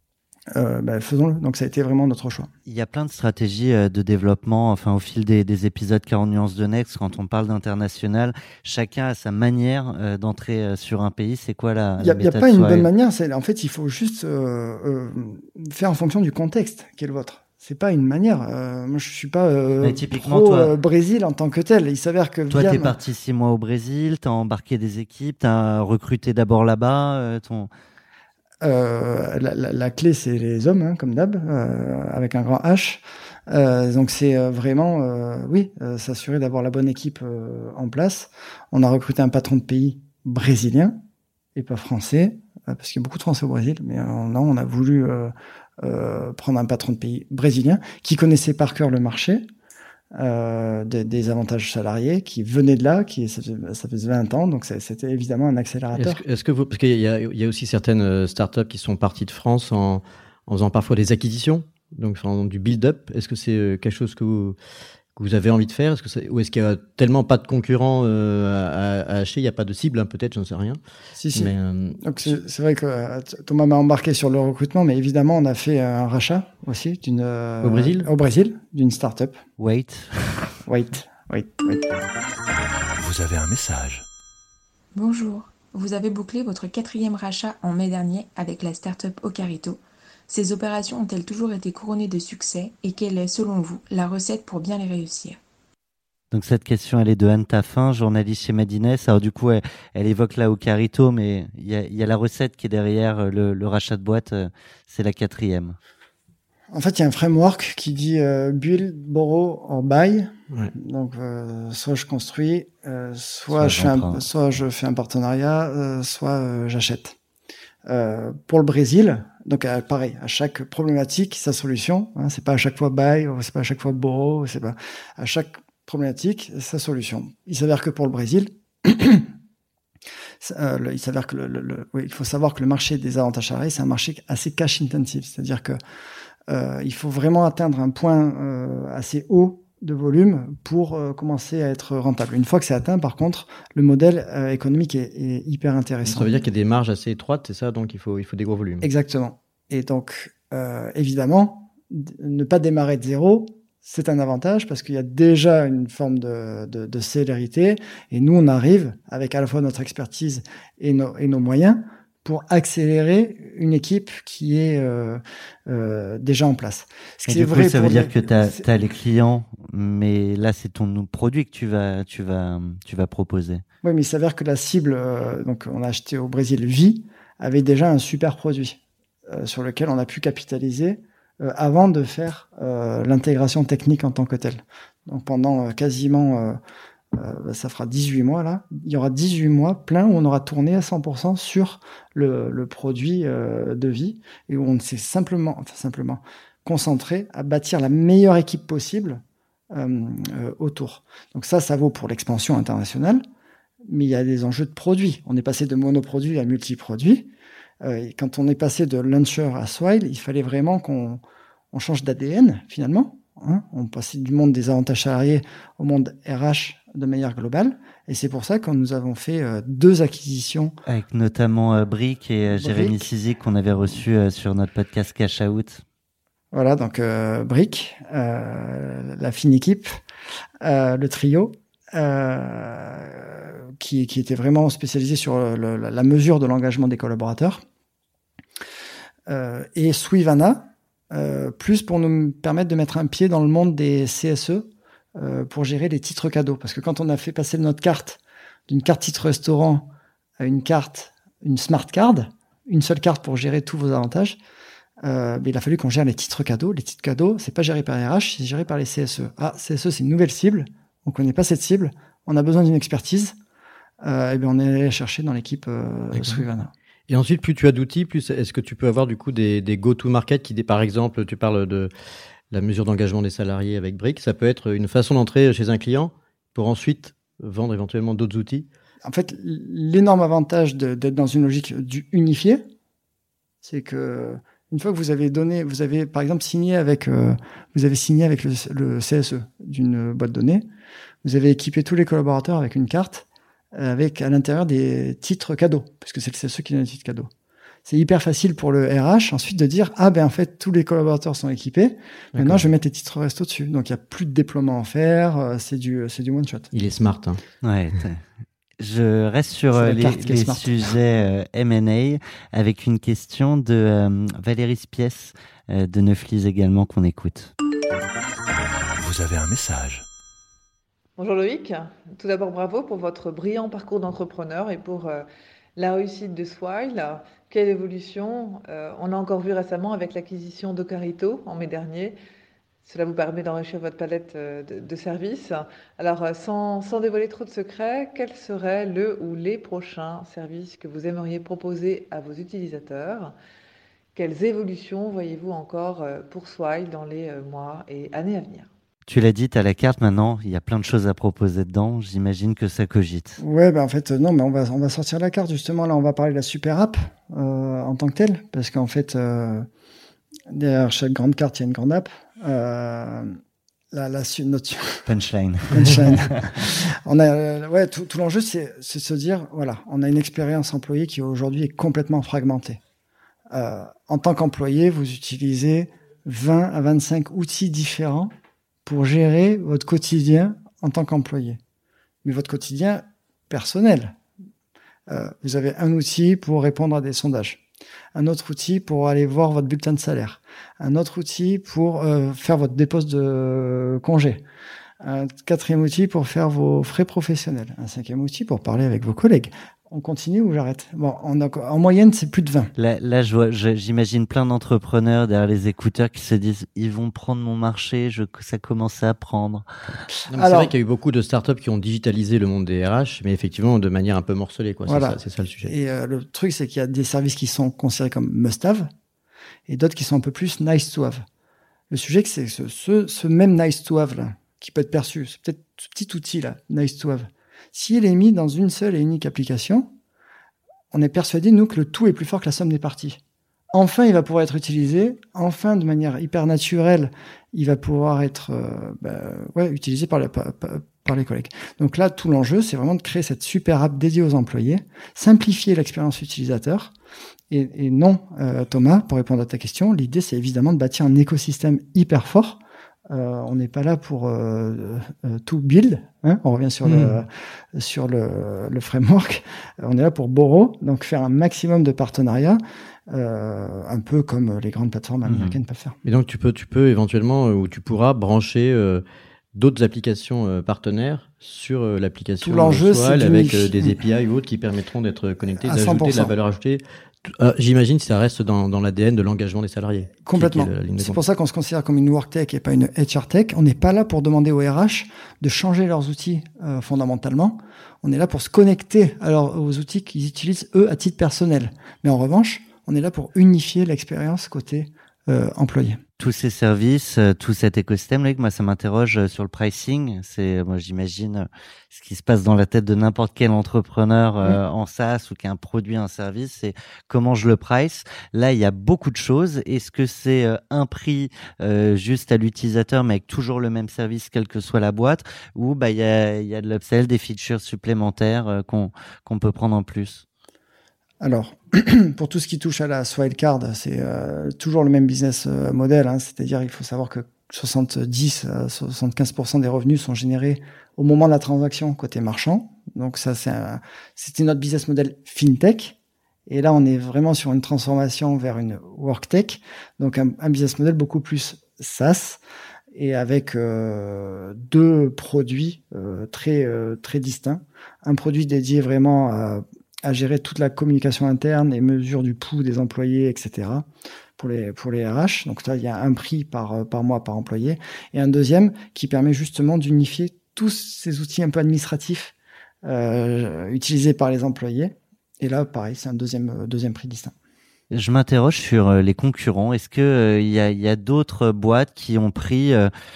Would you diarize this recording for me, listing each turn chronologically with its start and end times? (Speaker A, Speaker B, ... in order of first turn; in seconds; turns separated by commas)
Speaker A: 0.5-2.5, Speaker B: 2.6-12.9, Speaker A: 12.0-22.9, Speaker B: 19.8-20.7, Speaker B: 22.5-27.7, Speaker A: 28.6-40.9, Speaker A: 41.5-49.4, Speaker A: 50.1-56.2, Speaker C: 55.9-64.5, Speaker C: 65.2-70.8, Speaker A: 71.2-79.4, Speaker C: 71.3-72.4, Speaker C: 77.6-78.1, Speaker B: 79.6-80.1, Speaker A: 80.6-81.9, Speaker D: 83.0-84.0, Speaker E: 84.9-95.4, Speaker B: 96.3-105.8, Speaker A: 106.7-117.2, Speaker B: 113.5-114.2, Speaker A: 117.8-129.3, Speaker A: 130.4-135.8, Speaker A: 136.5-146.3, Speaker C: 146.0-148.8, Speaker A: 148.8-168.6, Speaker B: 167.2-173.6, Speaker A: 173.8-186.6, Speaker A: 187.1-203.2, Speaker A: 203.8-207.3, Speaker A: 207.8-211.2, Speaker A: 211.7-220.7, Speaker B: 220.9-225.8, Speaker A: 222.5-223.1, Speaker A: 226.5-230.0, Speaker A: 230.6-237.6, Speaker A: 239.3-254.4, Speaker A: 255.0-263.3, Speaker A: 264.0-266.7, Speaker C: 266.1-266.4, Speaker C: 267.1-271.9, Speaker C: 272.5-278.7, Speaker A: 279.0-282.6, Speaker A: 283.6-290.6, Speaker A: 291.2-297.3, Speaker A: 297.9-306.7, Speaker C: 302.3-302.7, Speaker C: 306.7-307.4, Speaker B: 307.6-308.2, Speaker B: 308.8-317.5, Speaker A: 309.7-310.9, Speaker D: 318.9-320.1, Speaker F: 321.2-332.1, Speaker F: 332.8-343.3, Speaker F: 344.1-348.7, Speaker B: 349.1-353.4, Speaker A: 353.4-359.6, Speaker A: 360.5-363.4, Speaker A: 363.9-365.1, Speaker B: 365.1-366.2, Speaker A: 365.7-372.8, Speaker A: 373.5-378.3, Speaker A: 378.9-381.6, Speaker A: 382.2-384.1, Speaker A: 385.1-394.4, Speaker A: 395.0-402.7, Speaker B: 402.8-409.7, Speaker C: 410.3-415.7, Speaker A: 410.3-410.7, Speaker A: 414.9-418.9, Speaker A: 419.7-421.2, Speaker A: 421.9-429.9, Speaker A: 430.9-433.2, Speaker A: 433.7-446.9, Speaker A: 447.5-466.0, Speaker C: 456.8-457.2, Speaker B: 465.2-465.6, Speaker C: 466.0-481.2, Speaker A: 472.4-474.0, Speaker A: 475.6-476.3, Speaker A: 480.2-496.0, Speaker B: 496.2-520.2, Speaker A: 521.2-536.0, Speaker A: 536.5-542.4, Speaker A: 542.9-567.3, Speaker B: 567.9-572.9